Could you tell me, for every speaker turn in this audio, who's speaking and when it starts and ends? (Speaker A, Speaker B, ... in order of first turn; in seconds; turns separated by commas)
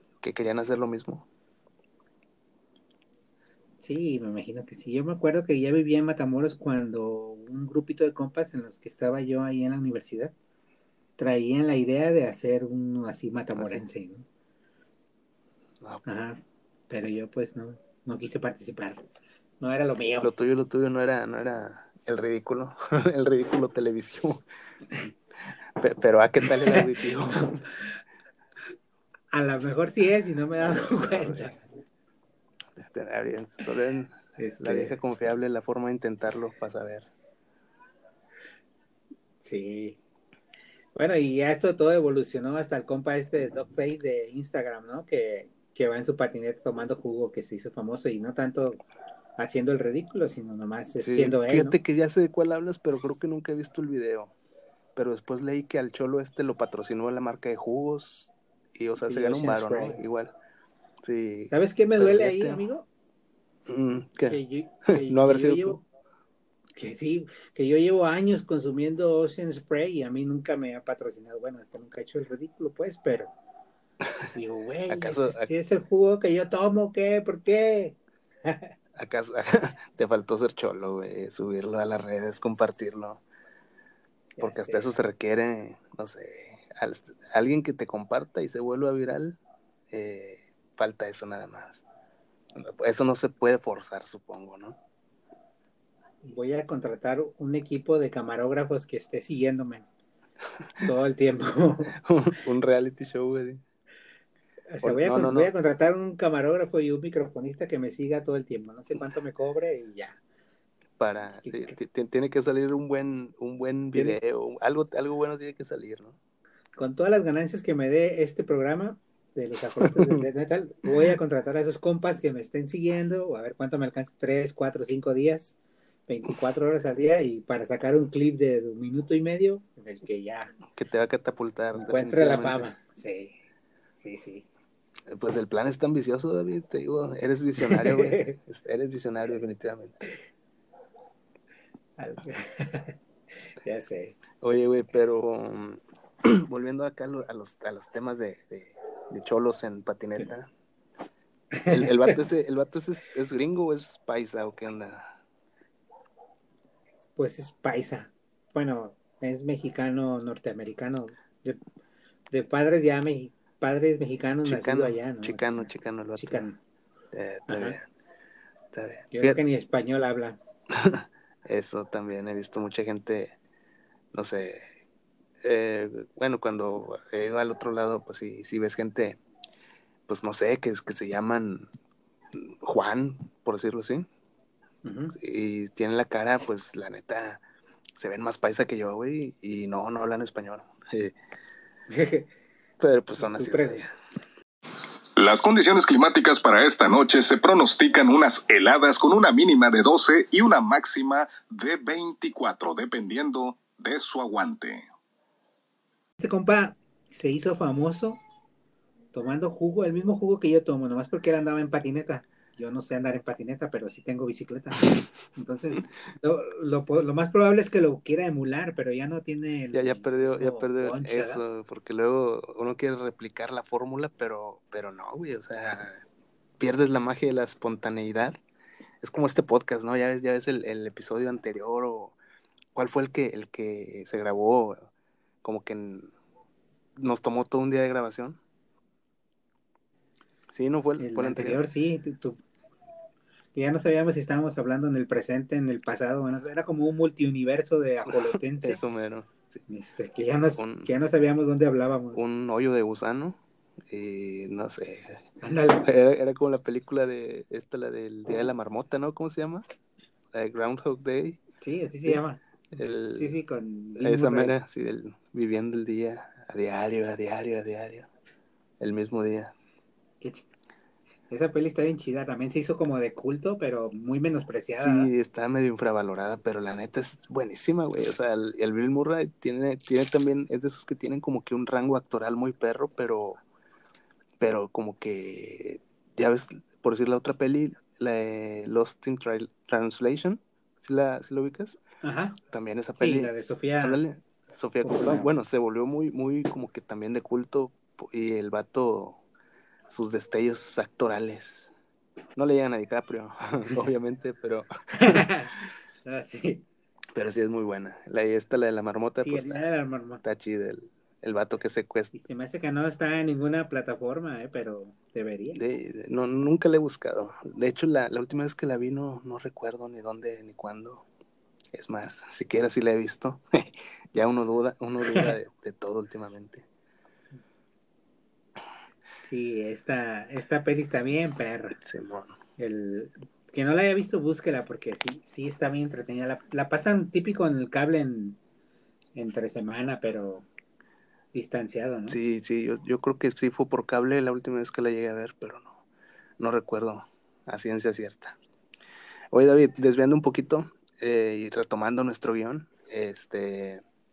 Speaker A: 0.2-1.2, Speaker B: 3.8-10.3, Speaker B: 11.2-14.2, Speaker A: 13.5-13.8, Speaker B: 16.1-19.0, Speaker B: 19.6-20.3, Speaker A: 20.2-24.4, Speaker A: 25.8-27.6, Speaker B: 29.3-31.6, Speaker A: 30.6-31.6, Speaker A: 32.8-37.1, Speaker B: 34.4-35.0, Speaker B: 39.4-40.0, Speaker B: 40.9-48.8, Speaker B: 49.4-51.8, Speaker A: 51.0-54.3, Speaker A: 55.0-60.3, Speaker B: 59.0-60.0, Speaker A: 61.0-62.6, Speaker B: 61.5-62.9, Speaker A: 63.7-65.8, Speaker B: 64.3-65.8, Speaker B: 66.8-73.3, Speaker B: 74.3-78.7, Speaker A: 74.9-75.5, Speaker A: 79.0-83.2, Speaker B: 84.4-85.0, Speaker A: 84.4-89.4, Speaker A: 89.9-91.8, Speaker A: 92.5-94.8, Speaker B: 96.2-99.8, Speaker B: 100.8-102.0, Speaker A: 102.0-103.6, Speaker B: 104.7-110.2, Speaker A: 104.8-105.5, Speaker A: 111.0-116.2, Speaker B: 111.4-111.8, Speaker B: 116.8-125.6, Speaker A: 119.8-120.1, Speaker B: 126.1-130.5, Speaker A: 130.7-132.7, Speaker B: 131.7-133.4, Speaker B: 133.9-134.5, Speaker A: 135.1-140.1, Speaker B: 137.6-138.3, Speaker B: 142.0-143.0, Speaker B: 143.6-144.2, Speaker A: 144.4-150.5, Speaker B: 151.5-151.9, Speaker A: 151.7-155.1, Speaker B: 157.2-161.6, Speaker B: 162.3-166.6, Speaker A: 164.4-166.4, Speaker A: 167.1-167.8, Speaker B: 167.5-167.8, Speaker A: 168.7-169.4, Speaker B: 169.1-170.4, Speaker A: 170.7-173.3, Speaker A: 174.1-174.7, Speaker A: 175.4-179.2, Speaker A: 180.1-181.7, Speaker A: 182.3-184.1, Speaker B: 184.8-185.1, Speaker A: 185.1-187.4, Speaker A: 188.0-191.2, Speaker B: 191.9-192.3, Speaker A: 192.8-193.9, Speaker B: 193.2-193.8, Speaker C: 195.2-204.8, Speaker B: 206.2-208.2, Speaker B: 209.1-221.4, Speaker A: 219.7-226.0, Speaker A: 226.6-228.4, Speaker A: 229.0-232.2, Speaker A: 232.7-234.9, Speaker A: 235.4-236.1, Speaker A: 236.9-238.4, Speaker A: 240.5-241.6, Speaker B: 241.0-242.4, Speaker B: 243.5-248.8, Speaker A: 248.6-249.6, Speaker B: 249.7-252.3, Speaker A: 250.6-250.9, Speaker A: 252.1-253.4, Speaker A: 253.9-255.3, Speaker B: 255.4-255.8, Speaker A: 255.8-259.6, Speaker A: 260.3-261.4, Speaker B: 261.6-262.4, Speaker A: 262.7-263.4, Speaker B: 263.1-264.5, Speaker A: 264.0-268.1, Speaker A: 268.8-269.5, Speaker B: 270.2-270.5, Speaker B: 271.3-275.1, Speaker A: 274.8-283.4, Speaker A: 284.4-291.8, Speaker B: 292.0-292.4, Speaker A: 292.5-299.2, Speaker B: 293.0-294.0, Speaker B: 294.8-295.3, Speaker A: 299.9-301.7, Speaker A: 302.4-305.2, Speaker B: 304.9-306.6, Speaker A: 307.1-309.6, Speaker B: 309.2-310.2, Speaker A: 310.2-312.1, Speaker B: 312.1-315.6, Speaker A: 315.5-321.0, Speaker A: 321.7-326.6, Speaker B: 329.2-331.8, Speaker A: 331.8-332.4, Speaker B: 332.6-338.4, Speaker B: 339.1-340.5, Speaker B: 341.3-342.2, Speaker A: 342.1-345.8, Speaker A: 346.4-348.4, Speaker A: 349.3-353.8